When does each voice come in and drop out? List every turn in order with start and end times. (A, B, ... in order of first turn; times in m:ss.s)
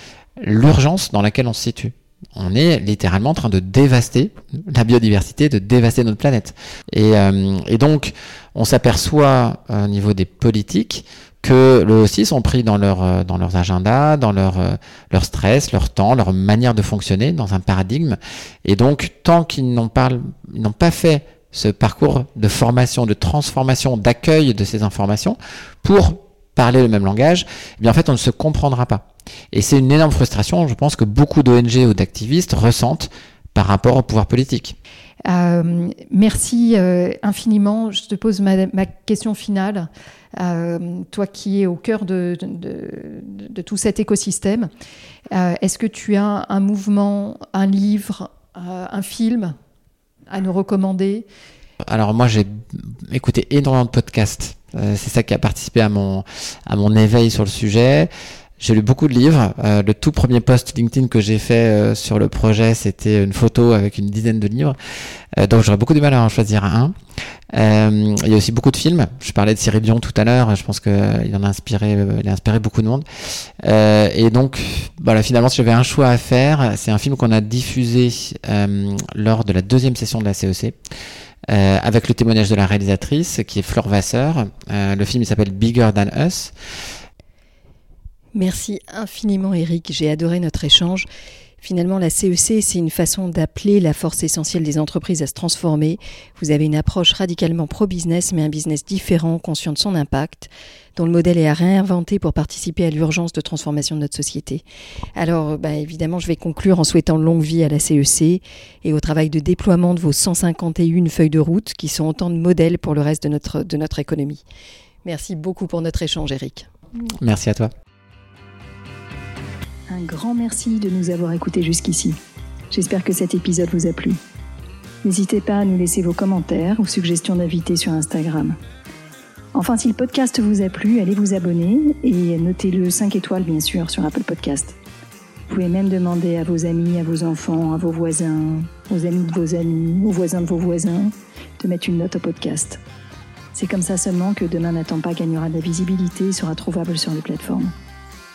0:00.4-0:34.8 A
0:35.2-0:44.7 B
0:45.3-0:49.5 B
0:50.3-0:51.3 B
0:51.8-1:04.8 A
1:05.3-1:06.9 A
1:07.5-1:20.8 A
1:21.5-1:26.5 A
1:28.3-1:31.1 B
1:31.6-1:44.6 B
1:45.2-1:54.4 B
1:55.0-1:56.7 B
1:57.2-1:57.7 A
1:59.9-2:02.2 B
2:02.7-2:04.2 B
2:05.0-2:08.6 B
2:09.5-2:14.7 B
2:15.5-2:22.8 B
2:23.5-2:27.7 B